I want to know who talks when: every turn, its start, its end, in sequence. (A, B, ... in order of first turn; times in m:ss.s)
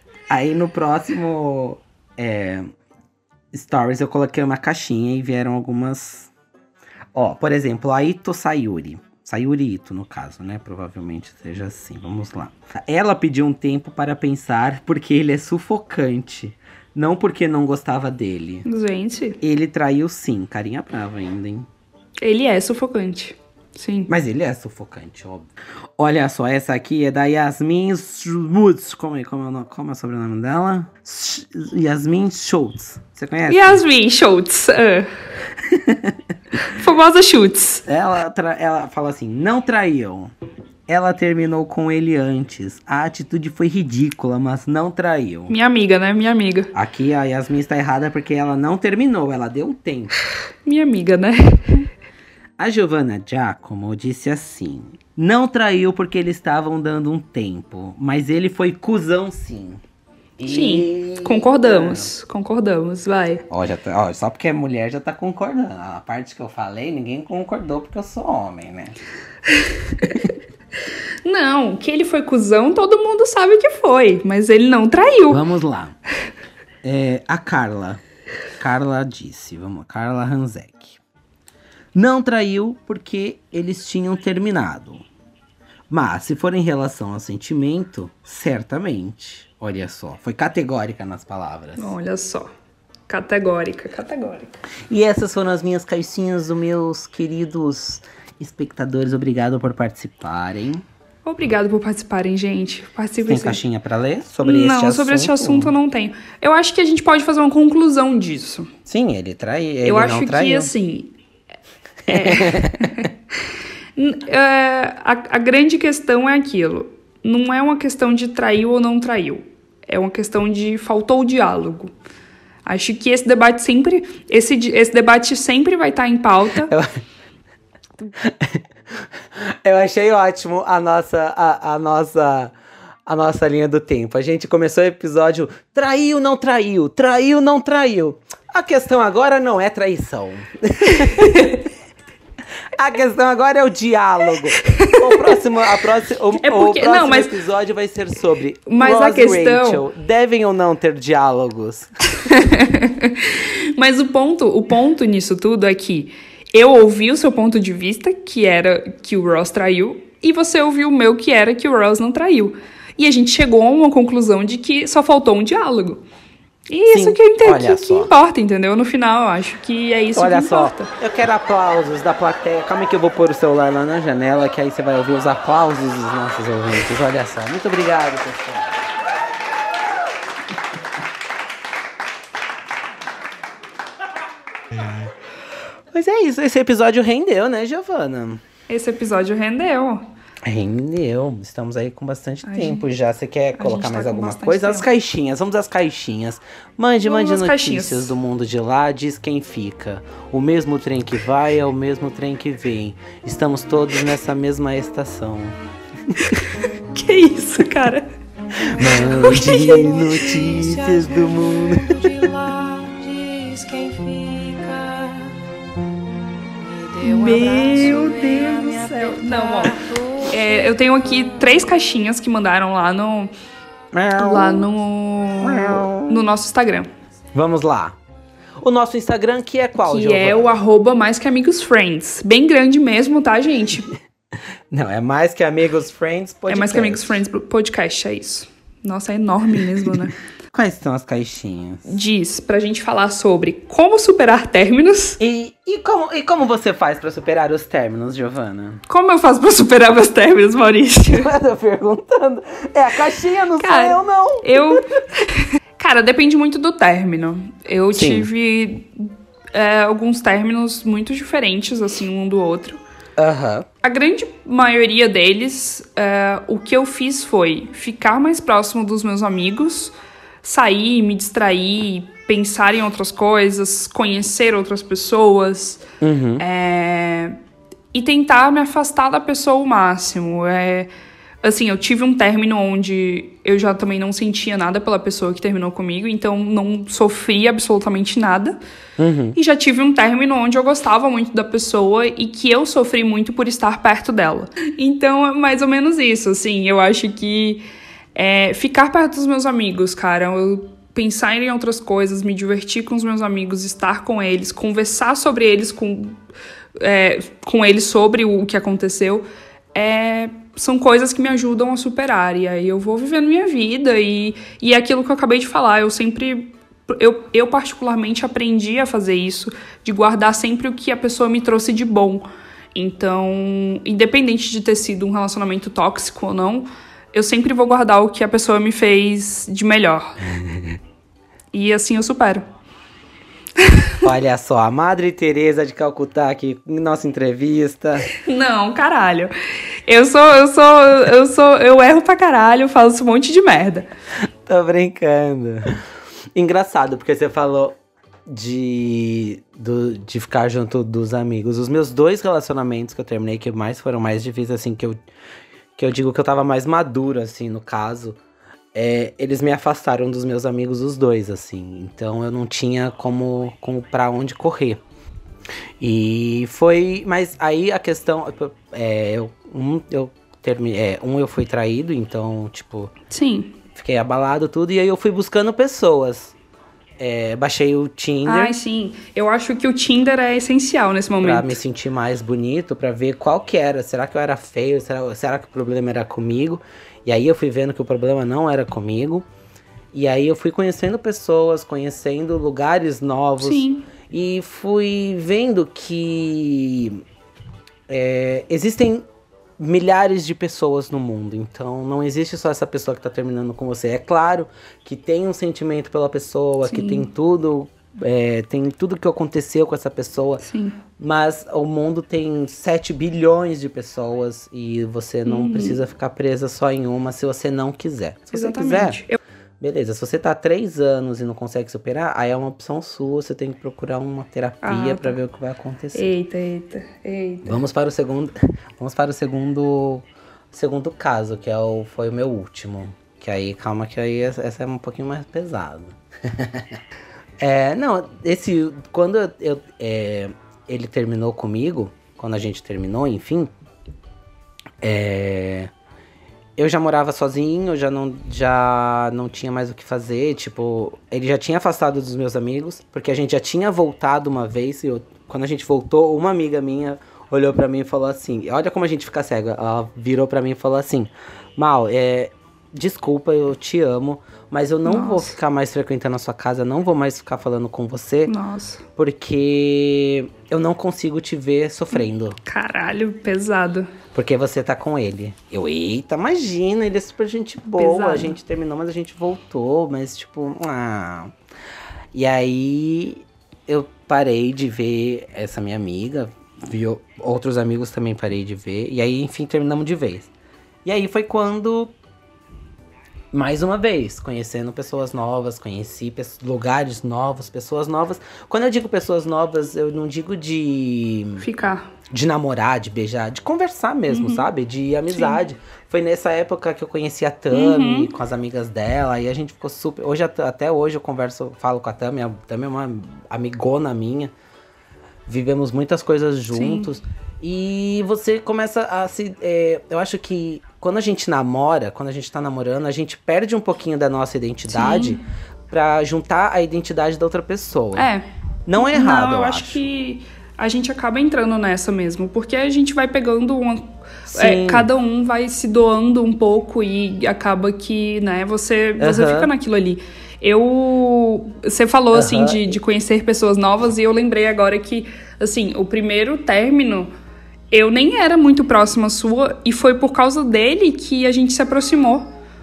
0:00.3-0:02.7 A
0:03.5-0:06.3 A
0:07.1-0:18.6 A
0:18.6-0:19.4 B
0:19.4-0:21.7 A
0:22.2-0:24.1 B
0:24.1-0:33.8 A
0:33.5-0:35.1 B
0:35.7-0:36.2 A
0:36.7-0:37.8 B
0:37.9-0:40.3 A
0:40.9-0:45.5 A
0:45.5-0:46.7 B
0:46.7-0:50.1 A
0:50.6-0:51.9 B
0:52.6-0:59.8 A
1:00.4-1:02.1 A
1:00.5-1:03.4 B
1:03.5-1:09.0 A
1:10.0-1:10.3 A
1:11.2-1:15.4 B
1:15.3-1:16.0 A
1:16.8-1:18.0 A
1:18.6-1:21.0 A
1:21.9-1:25.0 A
1:25.9-1:32.0 A
1:31.8-1:32.5 B
1:33.1-1:34.6 B
1:34.9-1:40.8 A
1:41.2-1:43.6 B
1:43.2-1:45.7 A
1:44.4-1:48.7 B
1:48.8-1:50.7 A
1:49.8-1:51.1 B
1:52.1-1:53.0 A
1:52.1-1:53.1 B
1:54.0-2:01.9 B
2:02.6-2:06.7 B
2:06.6-2:07.0 A
2:08.2-2:12.5 A
2:13.0-2:21.6 A
2:21.0-2:21.6 B
2:22.7-2:31.9 A
2:24.7-2:25.4 B
2:26.4-2:27.3 B
2:28.7-2:29.8 B
2:32.2-2:46.0 B
2:46.7-2:50.9 B
2:46.9-2:48.1 A
2:50.1-2:58.9 A
3:05.9-3:08.4 A
3:08.7-3:10.0 B
3:10.4-3:26.2 A
3:12.4-3:12.8 B
3:13.6-3:14.9 B
3:17.0-3:18.1 B
3:26.3-3:28.1 B
3:28.7-3:32.2 A
3:28.8-3:30.2 B
3:29.3-3:35.4 C
3:36.6-3:40.4 C
3:37.0-3:39.8 B
3:37.6-3:38.8 A
3:40.3-3:43.3 B
3:43.9-3:44.7 A
3:44.2-3:46.9 B
3:45.4-3:46.2 A
3:47.3-3:48.0 A
3:48.6-3:50.6 A
3:49.8-3:53.9 B
3:54.7-3:57.2 A
3:56.5-4:00.1 B
4:00.5-4:01.9 A
4:01.8-4:05.2 B
4:05.2-4:08.8 A
4:08.9-4:11.3 B
4:11.1-4:14.8 A
4:13.6-4:22.8 B
4:17.9-4:18.3 A
4:23.2-4:23.7 A
4:23.8-4:35.8 B
4:36.0-4:36.4 A
4:36.4-4:37.4 B
4:37.9-4:40.9 B
4:41.4-4:48.6 B
4:49.0-4:49.4 A
4:49.3-4:57.6 B
4:58.1-5:06.2 B
5:06.8-5:30.2 B
5:30.4-5:30.8 A
5:31.5-5:32.4 B
5:33.6-5:33.9 B
5:34.0-5:38.1 A
5:38.2-5:39.3 B
5:39.8-5:43.9 B
5:44.4-5:45.8 A
5:46.3-5:47.8 A
5:48.3-5:55.0 A
5:55.8-5:58.2 A
5:58.7-6:04.8 A
6:05.8-6:12.9 A
6:13.1-6:13.5 B
6:13.7-6:16.3 A
6:17.0-6:18.6 A
6:18.2-6:21.6 B
6:21.2-6:29.2 A
6:29.9-6:37.0 A
6:33.4-6:33.9 B
6:37.9-6:39.0 A
6:39.6-6:50.4 A
6:46.6-6:47.1 B
6:50.4-6:50.8 B
6:51.0-6:59.0 A
6:55.2-6:55.8 B
6:58.3-6:59.2 B
6:59.6-7:06.1 A
7:04.6-7:05.2 B
7:05.9-7:07.6 B
7:07.4-7:16.8 A
7:17.4-7:23.5 A
7:24.8-7:25.7 A
7:26.6-7:48.3 A
7:44.8-7:45.4 B
7:48.3-7:48.8 B
7:49.0-7:52.4 A
7:52.4-7:53.9 B
7:54.1-8:01.3 A
7:57.8-7:58.4 B
8:02.1-8:10.3 A
8:10.8-8:11.9 A
8:13.3-8:21.4 A
8:21.4-8:21.9 B
8:22.1-8:34.3 A
8:24.1-8:24.4 B
8:25.1-8:25.4 B
8:27.5-8:28.1 B
8:35.2-8:48.1 A
8:36.5-8:36.9 B
8:44.7-8:45.2 B
8:47.9-8:48.2 B
8:48.6-8:49.9 A
8:48.7-9:07.1 B
8:54.3-8:54.9 A
8:59.0-8:59.5 A
9:02.1-9:02.8 A
9:07.7-9:12.3 B